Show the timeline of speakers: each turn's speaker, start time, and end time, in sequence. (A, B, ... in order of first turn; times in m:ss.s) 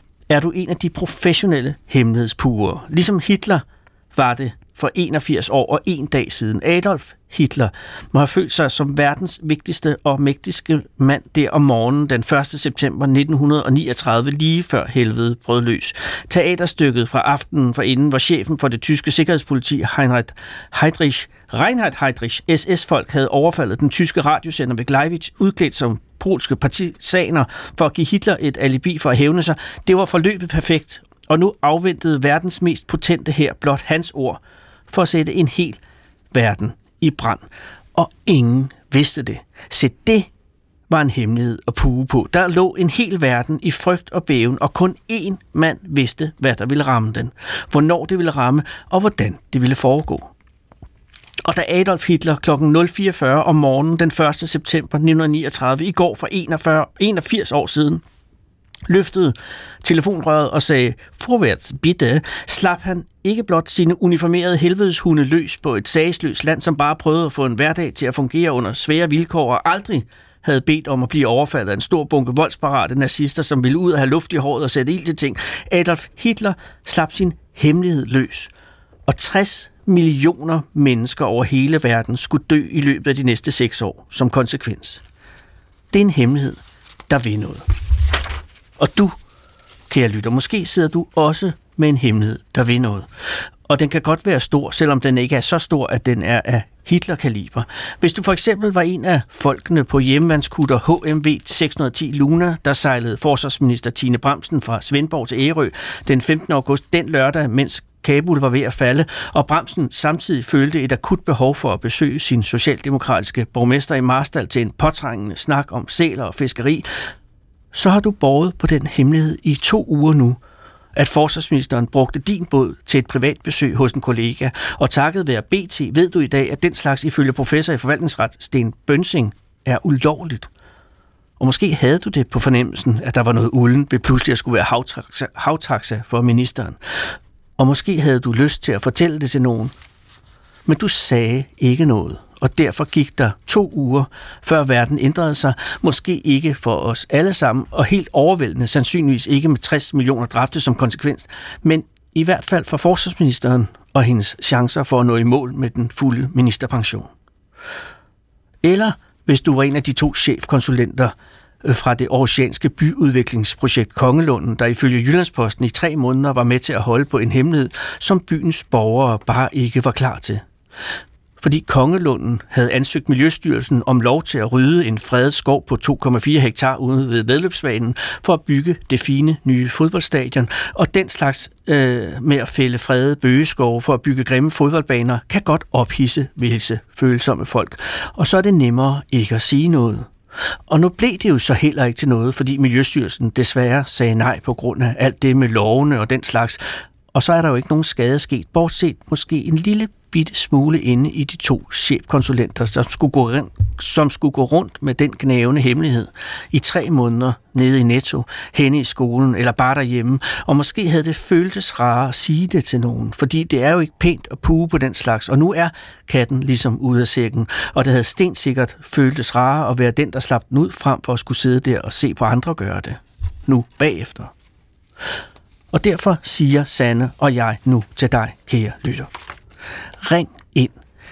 0:00.3-0:35.8 A
0:36.3-0:40.3 A
0:40.9-0:50.3 A
0:51.4-0:58.0 A
0:58.9-1:18.5 A
1:19.1-1:25.0 A
1:25.9-1:27.6 A
1:28.8-1:29.2 A
1:29.9-1:33.1 A
1:33.7-1:56.9 A
1:57.7-2:00.4 A
2:01.0-2:10.5 A
2:11.4-2:16.8 A
2:17.6-2:19.7 A
2:20.7-2:37.1 A
2:38.6-2:50.4 A
2:51.4-3:10.1 A
3:10.7-3:44.3 A
3:45.7-3:49.1 A
3:50.0-3:50.8 A